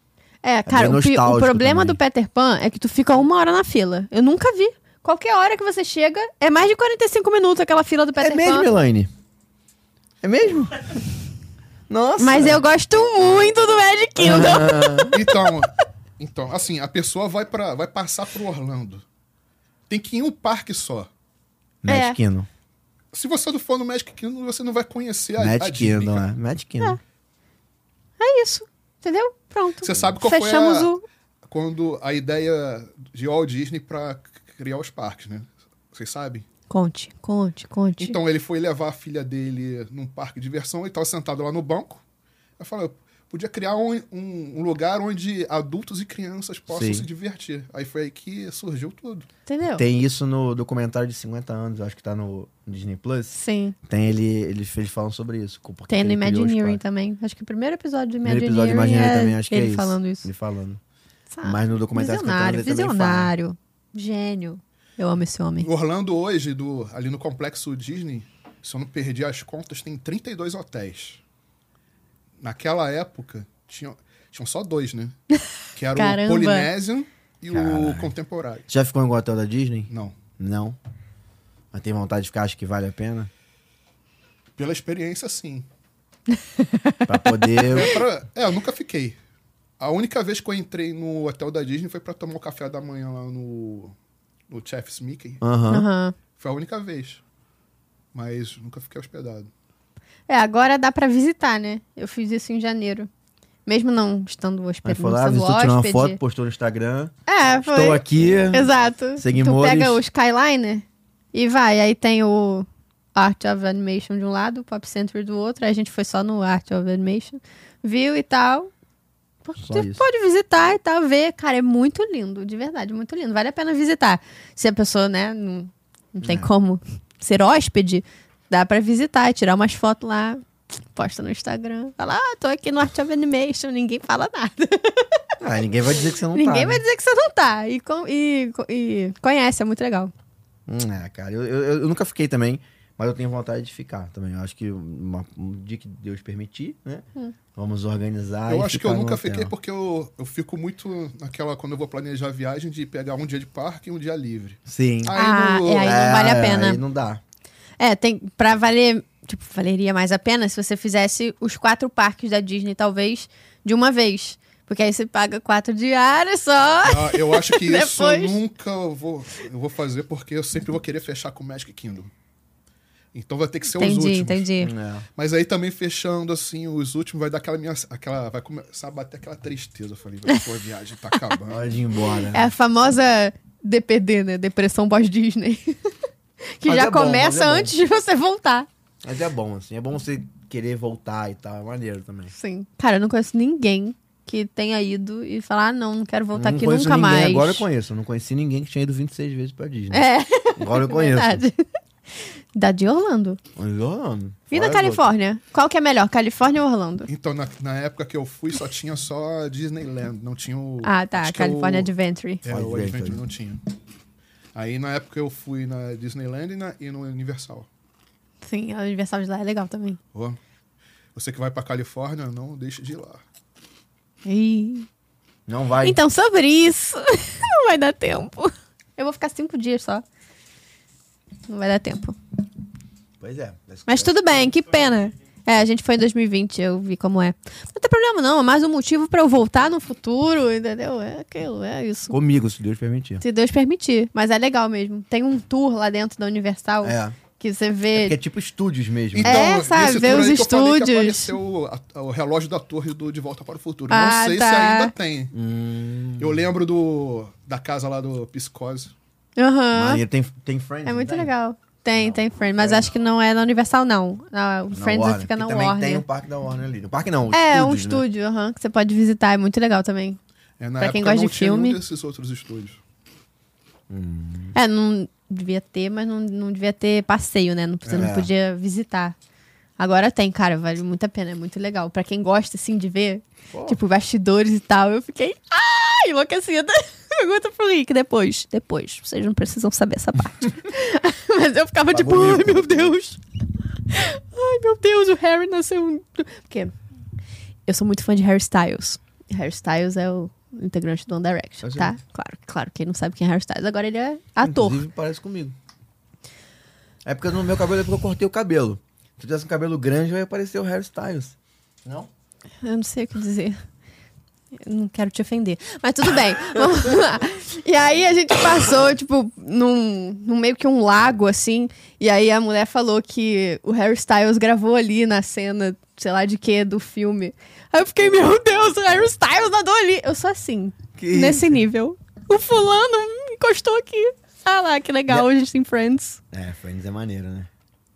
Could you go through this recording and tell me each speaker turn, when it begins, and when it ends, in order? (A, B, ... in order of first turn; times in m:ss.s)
0:00.4-0:08.7 A
0:00.7-0:02.0 B
0:08.2-0:09.1 B
0:10.2-0:11.0 B
0:11.9-0:12.6 B
0:12.2-0:15.3 A
0:14.2-0:15.2 B
0:15.1-0:19.0 C
0:19.9-0:21.1 C
0:21.8-0:22.5 B
0:21.9-0:22.2 A
0:23.1-0:26.3 C
0:25.4-0:27.0 B
0:28.2-0:31.0 A
0:29.8-0:30.9 C
0:31.5-0:36.4 C
0:36.7-0:38.2 A
0:38.0-0:42.0 C
0:42.6-0:49.2 C
0:46.7-0:47.1 B
0:49.4-0:49.8 A
0:49.7-0:56.8 B
0:53.3-0:53.8 A
0:55.9-1:00.3 A
0:58.2-1:00.8 B
1:01.3-1:05.7 A
1:01.4-1:03.3 B
1:05.6-1:11.2 C
1:12.4-1:15.2 C
1:15.7-1:18.6 C
1:15.9-1:16.7 A
1:17.5-1:18.1 B
1:18.7-1:20.8 B
1:19.9-1:20.2 C
1:21.7-1:23.3 B
1:24.6-1:25.6 C
1:26.6-1:27.4 A
1:27.0-1:28.0 B
1:27.7-1:29.2 C
1:29.8-1:33.9 C
1:34.5-1:35.4 C
1:35.4-1:35.9 B
1:35.7-1:36.1 A
1:36.4-1:37.2 C
1:38.1-1:39.5 C
1:40.3-1:43.1 A
1:43.6-1:46.2 A
1:44.8-1:50.0 B
1:47.3-1:58.7 A
1:59.4-2:15.2 A
1:59.6-2:00.0 B
2:06.2-2:06.5 B
2:15.4-2:16.8 B
2:16.3-2:20.1 A
2:20.7-2:29.5 B
2:28.5-2:36.1 C
2:34.7-2:35.2 B
2:35.1-2:36.8 A
2:35.8-2:37.2 B
2:37.8-2:48.3 A
2:46.8-2:52.1 C
2:53.1-2:54.5 C
2:53.8-2:54.7 A
2:54.6-2:55.0 B
2:55.2-3:01.7 C
3:01.5-3:02.5 B
3:02.3-3:05.9 A
3:06.6-3:08.7 A
3:06.6-3:07.7 B
3:09.0-3:12.3 B
3:12.3-3:17.6 A
3:16.3-3:21.4 B
3:19.9-3:21.6 A
3:22.5-3:23.4 A
3:23.6-3:25.1 B
3:24.5-3:27.1 A
3:27.1-3:31.9 C
3:30.8-3:32.4 A
3:32.4-3:33.6 C
3:32.5-3:33.2 B
3:34.5-3:37.7 C
3:38.4-3:40.0 A
3:41.1-3:43.2 C
3:44.2-3:44.9 A
3:45.4-3:46.0 B
3:45.8-3:50.0 A
3:51.5-3:52.2 A
3:53.2-3:54.5 B
3:53.9-4:02.2 A
4:02.1-4:03.2 B
4:03.2-4:08.2 A
4:06.8-4:07.2 B
4:07.9-4:09.5 B
4:09.1-4:15.3 C
4:09.2-4:11.3 A
4:13.9-4:14.9 A
4:15.3-4:16.5 B
4:16.2-4:18.9 C
4:19.4-4:20.0 A
4:19.7-4:21.3 B
4:20.8-4:26.0 A
4:21.9-4:22.9 B
4:24.7-4:28.0 B
4:27.3-4:30.2 A
4:30.6-4:32.8 C
4:30.8-4:31.8 A
4:33.9-4:34.6 B
4:34.5-4:39.2 A
4:37.8-4:38.1 C
4:38.0-4:38.3 B
4:39.8-4:53.2 A
4:43.5-4:43.8 B
4:51.9-4:52.9 B
4:53.9-4:56.7 A
4:57.7-5:04.8 A
5:01.6-5:01.9 B
5:04.4-5:05.6 B
5:07.0-5:12.1 B
5:12.6-5:13.6 A
5:14.6-5:36.2 A
5:31.0-5:31.6 B
5:36.3-5:37.5 B